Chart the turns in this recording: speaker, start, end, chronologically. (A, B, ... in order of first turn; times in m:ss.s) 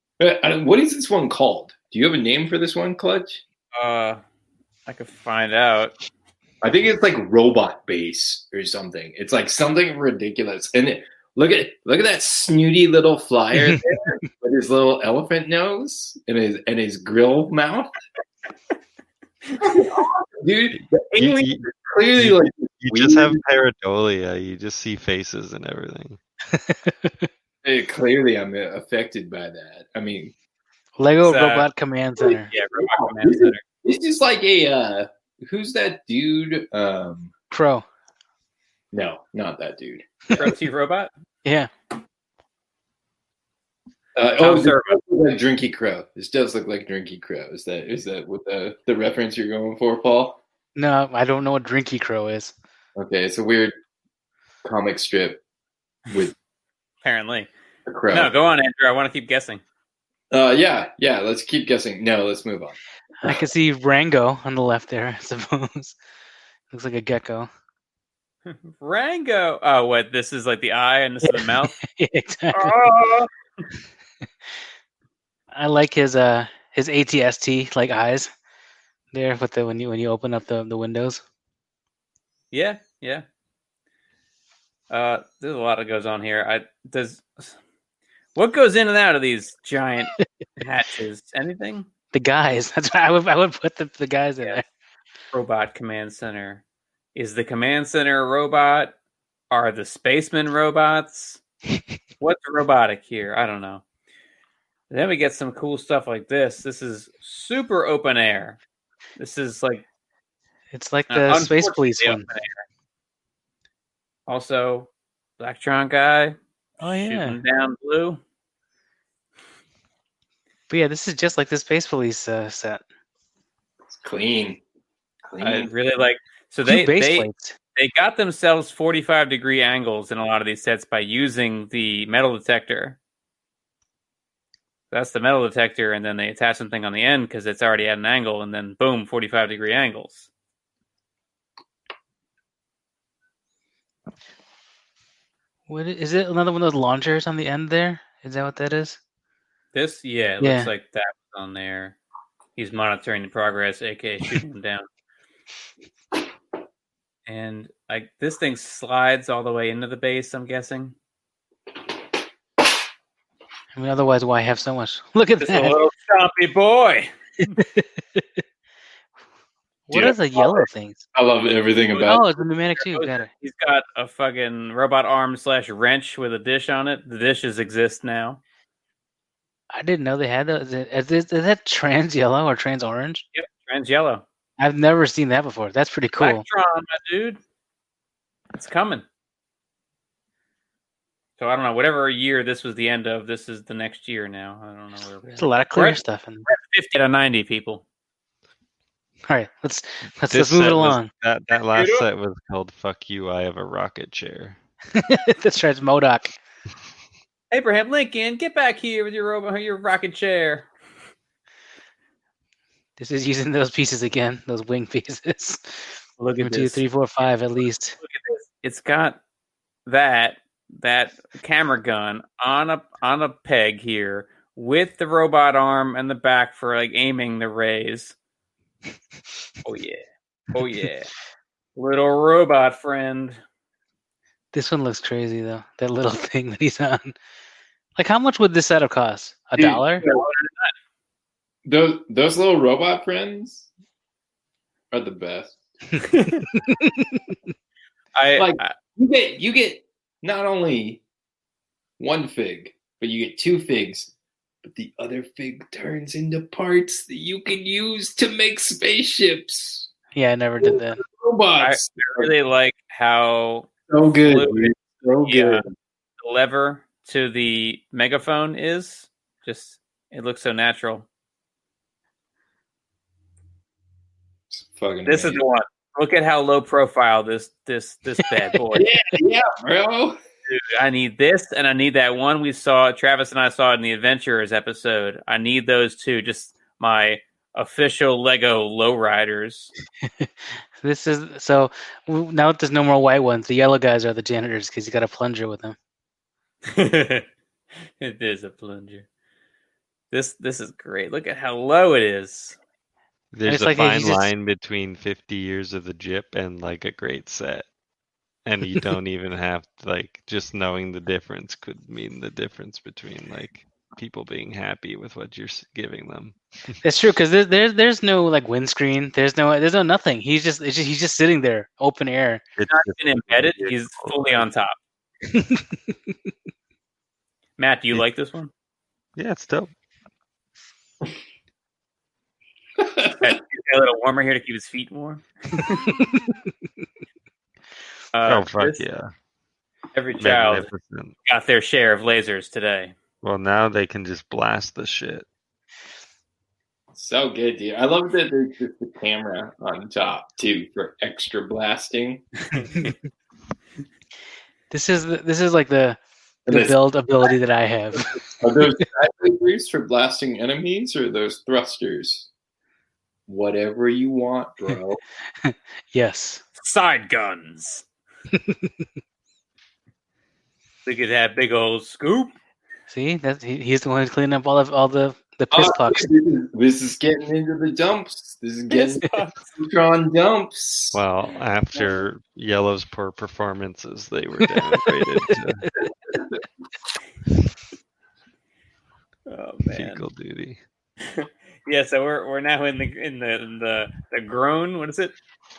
0:00.2-0:03.4 A
0:03.7-0:04.2 B
0:04.9-0:06.0 B
0:06.6-0:17.9 A
0:19.6-0:23.4 A
0:20.7-0:26.2 C
0:26.5-0:27.3 D
0:27.6-0:30.3 A
0:31.0-0:32.5 D
0:31.2-0:31.7 B
0:32.5-0:33.6 B
0:32.8-0:37.3 A
0:37.5-0:37.8 D
0:38.9-0:40.5 A
0:40.3-0:41.1 B
0:41.4-0:41.7 D
0:44.2-0:50.4 A
0:44.4-0:45.0 B
0:50.8-0:52.5 D
0:53.0-0:53.7 A
0:54.6-0:55.4 A
0:56.1-0:56.3 A
0:57.0-0:57.5 B
0:57.9-0:58.3 A
0:58.1-0:59.6 B
1:00.3-1:03.5 A
1:03.2-1:06.0 D
1:06.7-1:07.5 D
1:08.5-1:11.8 B
1:11.2-1:12.8 D
1:12.5-1:13.3 B
1:15.5-1:18.3 D
1:19.1-1:21.2 D
1:22.5-1:23.2 B
1:24.9-1:27.6 B
1:28.4-1:31.9 B
1:32.1-1:34.6 D
1:35.3-1:36.6 B
1:37.2-1:39.0 B
1:39.5-1:41.4 B
1:42.2-1:43.8 B
1:44.9-1:48.6 B
1:49.2-1:49.8 B
1:50.7-1:52.3 D
1:51.1-1:52.6 B
1:54.3-1:58.2 B
1:56.8-1:57.4 D
2:00.7-2:02.8 D
2:03.9-2:04.6 A
2:05.3-2:05.7 A
2:05.4-2:13.0 B
2:06.7-2:07.6 D
2:14.9-2:20.3 B
2:25.7-2:29.0 D
2:29.7-2:32.0 B
2:30.4-2:30.7 D
2:32.6-2:34.9 B
2:37.3-2:41.0 B
2:43.7-2:45.8 D
2:45.4-2:47.6 B
2:47.6-2:48.2 D
2:49.9-2:51.0 D
2:49.9-2:52.2 A
2:52.0-2:53.3 D
2:52.8-2:58.4 B
2:59.7-3:03.2 D
3:03.4-3:04.2 B
3:04.6-3:06.4 D
3:06.2-3:07.4 B
3:08.5-3:09.0 B
3:11.4-3:17.8 B
3:15.4-3:16.4 D
3:19.3-3:21.1 D
3:20.3-3:24.6 C
3:21.7-3:22.0 B
3:24.9-3:26.3 D
3:27.5-3:30.7 B
3:33.0-3:38.0 D
3:36.2-3:36.8 B
3:38.0-3:39.2 B
3:39.9-3:48.2 B
3:49.6-3:51.1 B
3:51.8-3:53.4 B
3:54.5-3:57.2 D
3:58.0-4:00.0 D
3:59.6-4:00.2 A
4:00.0-4:00.7 B
4:01.6-4:03.7 A
4:04.9-4:05.6 A
4:06.0-4:06.5 B
4:06.6-4:07.2 D
4:08.2-4:08.8 B
4:08.4-4:11.0 A
4:12.0-4:14.1 A
4:14.6-4:19.9 A
4:20.2-4:21.0 D
4:20.6-4:22.3 A
4:21.6-4:24.7 B
4:23.9-4:25.7 A
4:25.3-4:25.6 B
4:26.2-4:31.1 B
4:34.5-4:35.4 A
4:35.1-4:38.9 B
4:38.7-4:40.2 A
4:40.5-4:49.7 B
4:50.8-4:55.8 D
4:56.7-4:57.3 B
4:58.0-4:59.1 B
5:00.1-5:02.6 B
5:03.3-5:07.7 C
5:03.5-5:04.3 D
5:08.5-5:16.8 C
5:16.8-5:22.4 D
5:22.6-5:24.5 C
5:22.7-5:24.8 B
5:25.3-5:25.6 D
5:27.6-5:28.5 B
5:29.2-5:29.7 C
5:32.8-5:33.2 A
5:33.2-5:36.0 B
5:38.1-5:38.8 B
5:38.3-5:39.1 C
5:40.0-5:40.7 B
5:40.2-5:41.1 C
5:41.2-5:43.0 B
5:43.2-5:45.3 C
5:46.9-5:52.3 A
5:54.7-5:58.3 D
5:56.5-5:56.8 A
5:58.0-6:02.3 A
6:03.3-6:05.0 A
6:05.4-6:06.4 D
6:06.6-6:07.8 B
6:08.3-6:08.7 D
6:10.9-6:12.3 B
6:12.9-6:16.1 D
6:15.5-6:21.0 A
6:18.7-6:19.5 B
6:20.9-6:25.7 C
6:26.1-6:26.4 A
6:29.3-6:30.0 B
6:29.7-6:30.6 C
6:31.0-6:35.2 B